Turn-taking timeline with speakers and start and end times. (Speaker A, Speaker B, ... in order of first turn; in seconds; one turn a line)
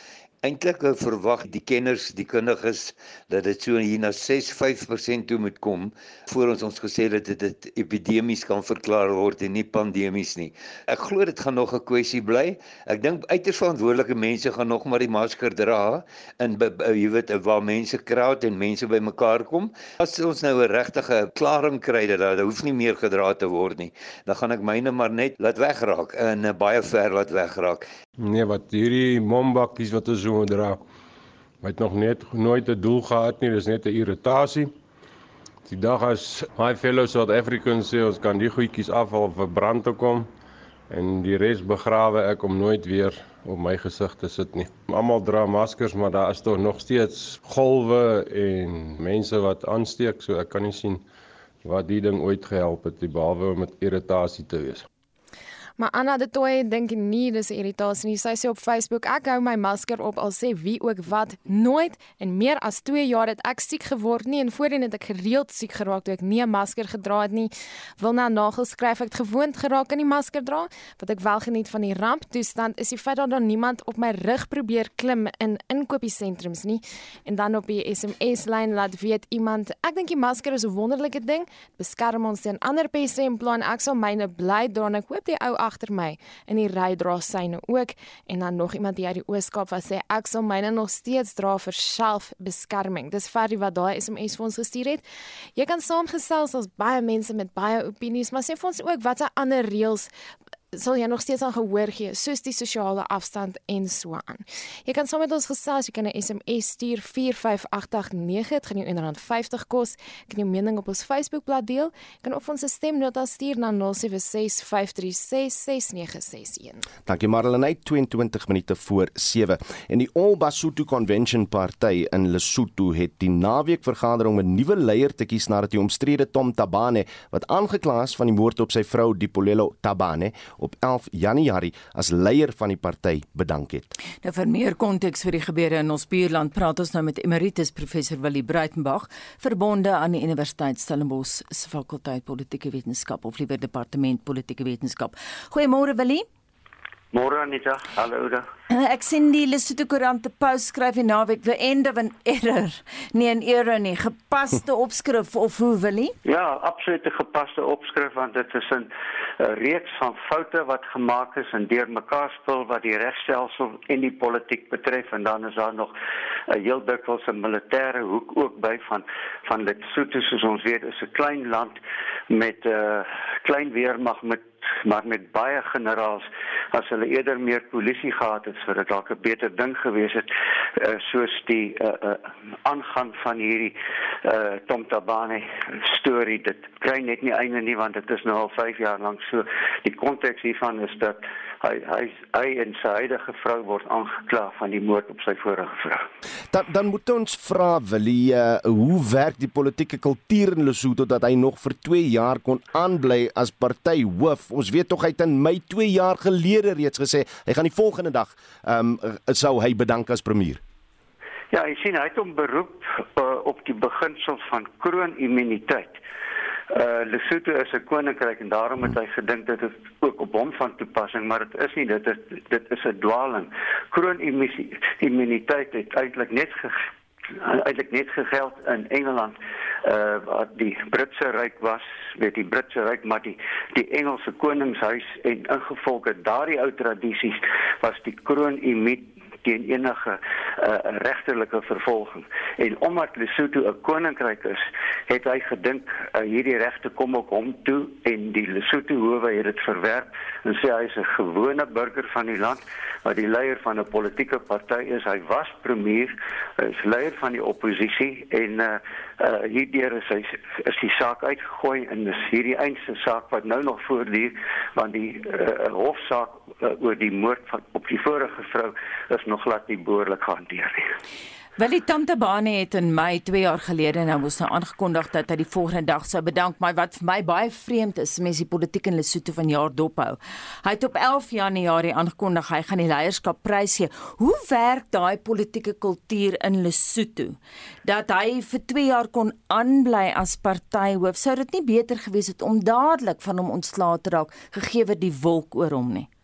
Speaker A: 0.4-27.9
Speaker B: 28.2-30.8
Speaker B: 31.6-34.8
Speaker B: 35.7-40.3
Speaker B: 40.9-51.0
Speaker B: 51.6-54.9
Speaker C: 55.8-100.1
Speaker C: 100.7-116.8
Speaker D: 117.1-133.9
Speaker E: 134.2-146.3
Speaker F: 147.1-148.5
Speaker E: 148.7-156.2
Speaker F: 156.2-165.9
Speaker F: 166.5-171.8
Speaker F: 172.3-196.0
Speaker D: 196.5-210.6
Speaker F: 211.5-216.0
Speaker F: 216.7-270.9
Speaker E: 271.6-296.1